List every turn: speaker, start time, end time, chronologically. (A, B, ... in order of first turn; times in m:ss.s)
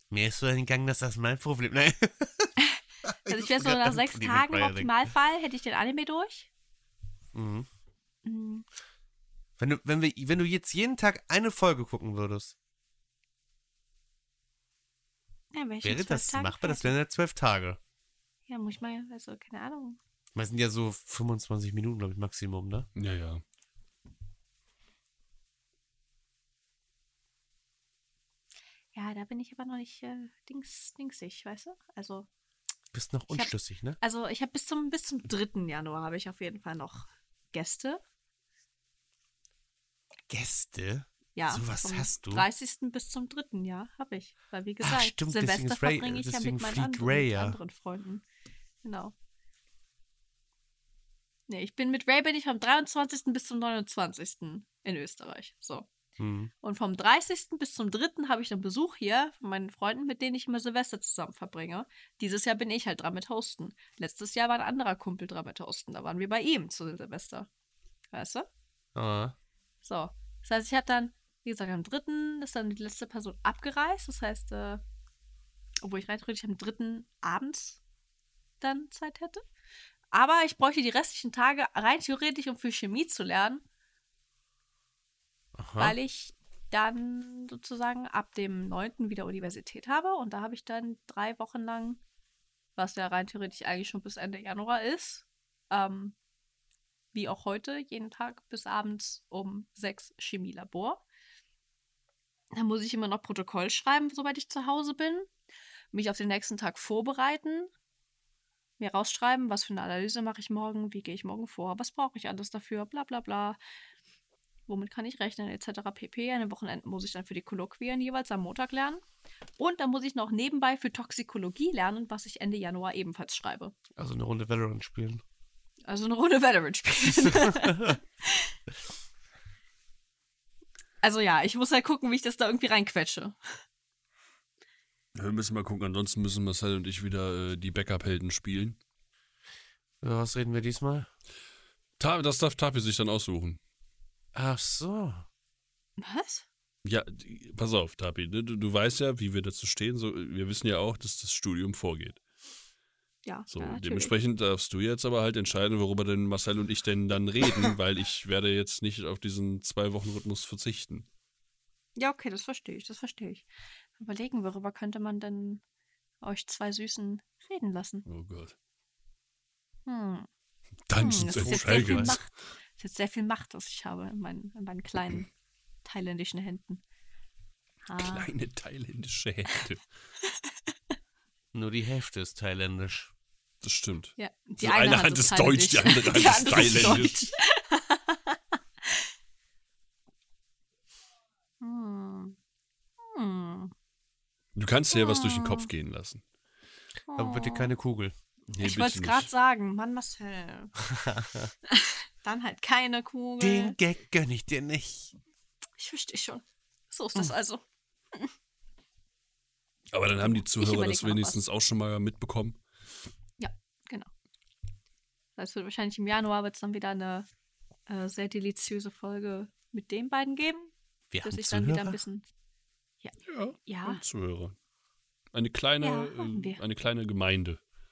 0:00.1-0:02.5 A
0:02.6-0:06.5 B
0:03.1-0:05.0 A
0:07.3-0:07.7 A
0:08.2-0:08.6 B
0:09.6-0:12.5 A
0:15.5-0:16.9 B
0:15.8-0:17.8 A
0:18.5-0:20.0 B
0:20.3-0:22.9 A
0:23.0-0:23.4 C
0:28.9-0:32.3 B
0:32.9-0:34.0 A
0:33.3-0:38.0 B
0:40.3-0:42.5 A
0:41.3-0:48.2 B
0:44.8-0:47.6 A
0:48.8-0:49.1 B
0:51.5-0:55.9 B
0:56.2-0:56.5 A
0:56.6-1:07.5 B
1:08.1-1:08.5 B
1:09.0-1:09.3 A
1:09.8-1:14.8 B
1:15.8-1:17.8 B
1:18.6-1:19.4 B
1:20.1-1:23.6 B
1:25.6-1:26.0 A
1:25.8-1:32.0 B
1:32.8-1:36.2 B
1:37.1-1:41.0 B
1:42.5-1:45.3 B
1:45.9-1:47.7 B
1:48.8-1:53.6 B
1:54.7-1:59.0 B
1:59.6-2:03.7 B
2:04.0-2:05.2 A
2:05.9-2:08.5 B
2:07.2-2:08.0 A
2:11.0-2:13.4 B
2:15.1-2:18.8 C
2:20.0-2:21.1 A
2:22.0-2:23.6 C
2:24.3-2:25.2 A
2:26.0-2:26.4 B
2:26.8-2:32.2 C
2:33.2-2:34.1 B
2:33.5-2:41.1 C
2:42.0-2:43.5 B
2:44.0-2:45.6 B
2:46.2-2:48.0 B
2:48.0-2:48.5 C
2:49.8-2:50.3 B
2:50.9-2:52.2 C
2:51.0-2:55.3 B
2:51.3-2:52.2 A
2:55.8-2:56.8 B
2:57.8-2:58.3 B
2:58.0-2:59.8 C
3:00.2-3:00.7 B
3:01.5-3:03.1 A
3:03.6-3:07.2 C
3:04.2-3:09.1 B
3:11.6-3:12.4 B
3:13.0-3:13.7 B
3:14.5-3:16.2 C
3:14.9-3:15.7 B
3:17.1-3:17.7 B
3:17.1-3:18.2 A
3:18.5-3:19.3 C
3:18.6-3:20.7 B
3:20.8-3:21.5 A
3:21.7-3:23.8 B
3:23.4-3:25.1 A
3:25.8-3:27.6 B
3:29.9-3:32.6 C
3:30.2-3:31.4 B
3:33.4-3:34.1 B
3:35.4-3:37.3 B
3:37.9-3:40.7 B
3:41.1-3:42.0 A
3:41.2-3:42.2 B
3:43.0-3:44.0 B
3:43.2-3:44.5 C
3:45.3-3:47.6 C
3:45.8-3:46.6 B